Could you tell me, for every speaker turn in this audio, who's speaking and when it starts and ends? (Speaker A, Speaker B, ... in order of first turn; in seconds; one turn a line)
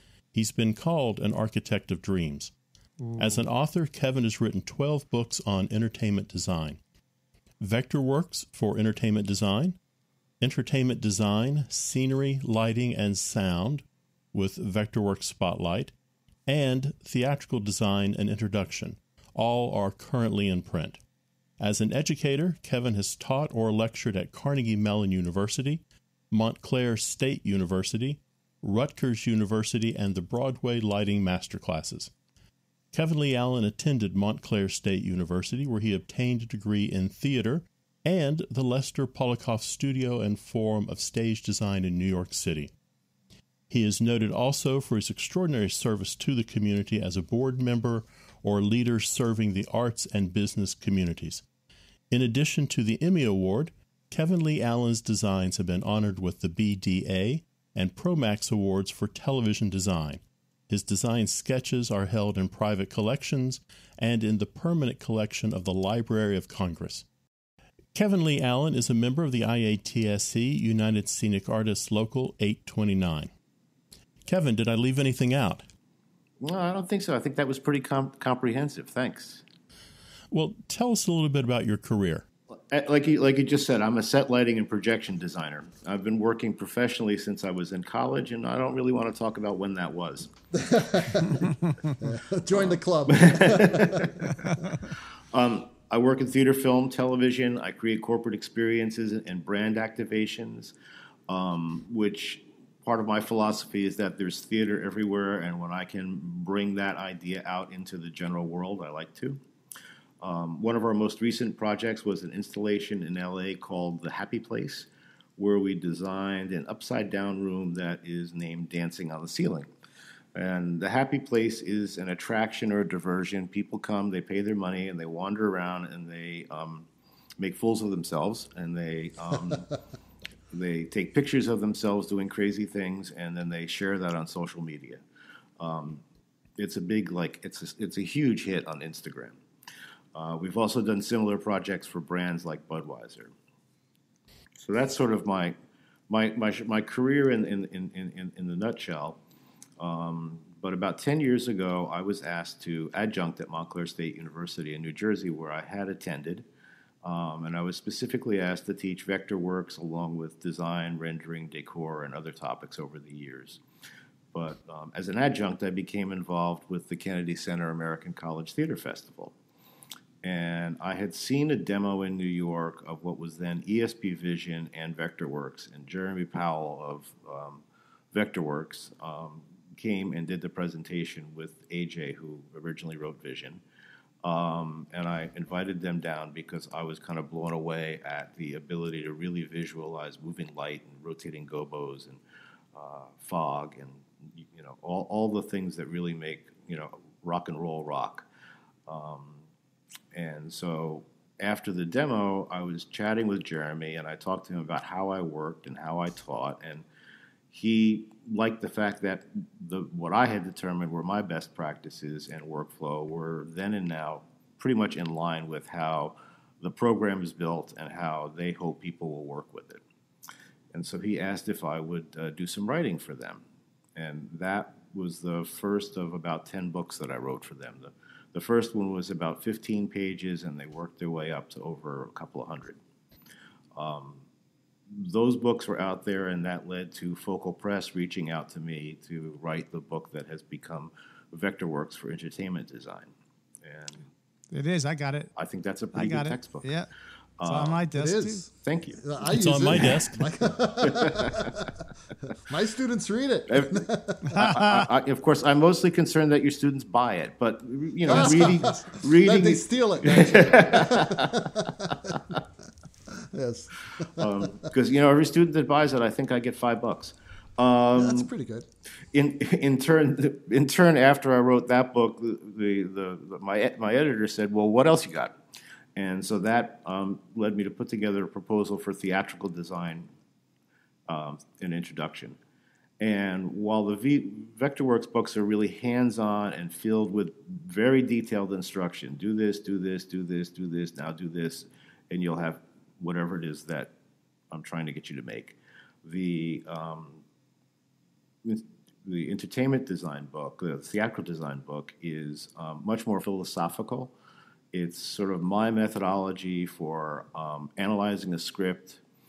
Speaker A: 0.3-2.5
Speaker B: 3.0-3.5
Speaker A: 3.2-6.8
Speaker A: 7.6-9.8
Speaker A: 10.4-15.9
Speaker A: 16.5-21.0
Speaker A: 21.6-32.1
Speaker A: 32.9-42.7
Speaker A: 43.7-51.4
Speaker A: 52.1-67.1
Speaker A: 67.9-73.3
Speaker A: 74.2-75.6
Speaker C: 76.4-79.4
Speaker A: 80.3-82.2
Speaker C: 82.6-90.3
Speaker D: 90.5-94.5
Speaker C: 92.5-100.7
Speaker C: 101.3-109.4
Speaker C: 110.2-119.7
Speaker C: 120.3-126.9
Speaker C: 127.4-129.7
Speaker C: 130.5-135.0
Speaker C: 135.6-136.0
Speaker C: 136.6-139.4
Speaker C: 140.2-143.3
Speaker C: 144.6-145.6
Speaker C: 146.1-149.2
Speaker C: 149.8-156.4
Speaker C: 157.0-163.6
Speaker C: 164.3-169.3
Speaker C: 170.2-183.6
Speaker C: 184.2-192.2
Speaker C: 192.8-198.3
Speaker C: 198.9-199.4
Speaker C: 200.1-206.8
Speaker C: 207.5-219.8
Speaker C: 220.7-223.4
Speaker C: 224.0-232.8
Speaker C: 233.8-234.2
Speaker C: 234.9-243.1
Speaker C: 243.6-244.1
Speaker B: 244.5-245.3
Speaker C: 245.4-246.7
Speaker B: 245.9-246.9
Speaker C: 247.4-247.8
Speaker B: 247.5-248.4
Speaker D: 247.9-251.7
Speaker C: 248.6-249.0
Speaker A: 249.3-250.3
Speaker C: 250.8-251.7
Speaker D: 252.4-254.5
Speaker C: 253.5-262.4
Speaker B: 254.3-254.9
Speaker D: 258.1-262.2
Speaker D: 263.1-264.5
Speaker C: 264.2-268.3
Speaker D: 268.0-268.7
Speaker C: 269.1-275.3
Speaker C: 276.0-280.1
Speaker C: 281.1-282.4
Speaker C: 283.0-293.9
Speaker C: 294.5-297.2
Speaker C: 298.4-304.1
Speaker C: 304.7-309.0